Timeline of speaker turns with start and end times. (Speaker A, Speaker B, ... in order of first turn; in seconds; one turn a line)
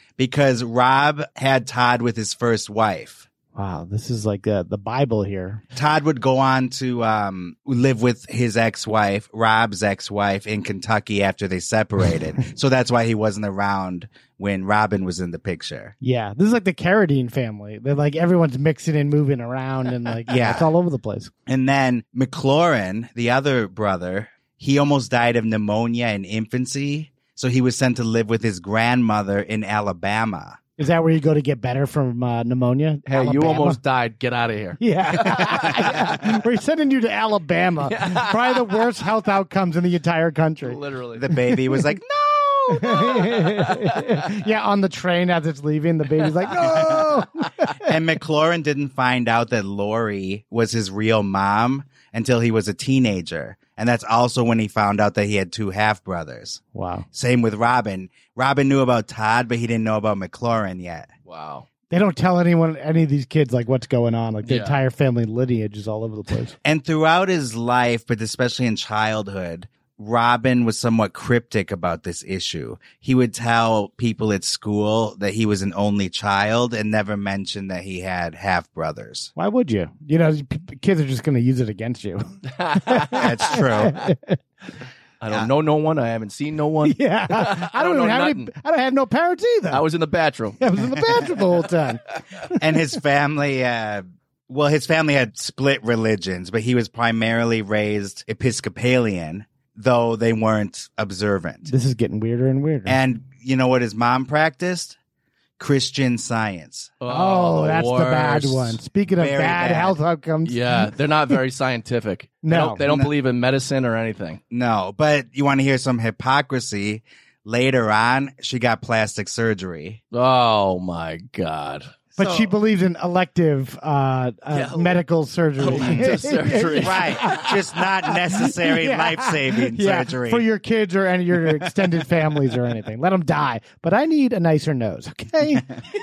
Speaker A: 0.2-3.3
Speaker B: 3.5-5.6
Speaker A: 5.7-15.9
Speaker B: 16.0-21.3
Speaker A: 20.3-20.7
Speaker A: 21.5-30.6
Speaker B: 30.8-33.8
Speaker C: 33.1-36.2
Speaker B: 34.8-40.8
Speaker C: 37.8-38.9
Speaker C: 40.6-41.3
Speaker A: 41.1-43.0
Speaker B: 42.7-47.8
Speaker C: 43.0-44.0
Speaker A: 47.8-56.6
Speaker B: 56.7-57.0
Speaker A: 57.1-61.1
Speaker C: 61.3-61.6
Speaker B: 61.9-66.5
Speaker C: 64.4-64.8
Speaker A: 66.6-79.3
Speaker B: 79.3-84.4
Speaker C: 82.5-83.6
Speaker A: 83.1-84.0
Speaker C: 85.2-88.5
Speaker B: 86.8-89.8
Speaker C: 89.7-90.6
Speaker B: 90.6-92.0
Speaker A: 92.6-101.7
Speaker B: 101.7-103.0
Speaker A: 102.8-105.0
Speaker A: 105.6-106.9
Speaker C: 107.0-108.8
Speaker B: 107.1-110.9
Speaker A: 109.2-110.0
Speaker C: 110.4-114.4
Speaker B: 112.4-112.8
Speaker A: 112.8-113.1
Speaker A: 114.5-120.0
Speaker C: 120.1-121.9
Speaker A: 122.2-122.5
Speaker B: 122.2-135.7
Speaker C: 124.5-125.0
Speaker C: 125.6-127.5
Speaker A: 125.8-126.0
Speaker A: 126.8-130.4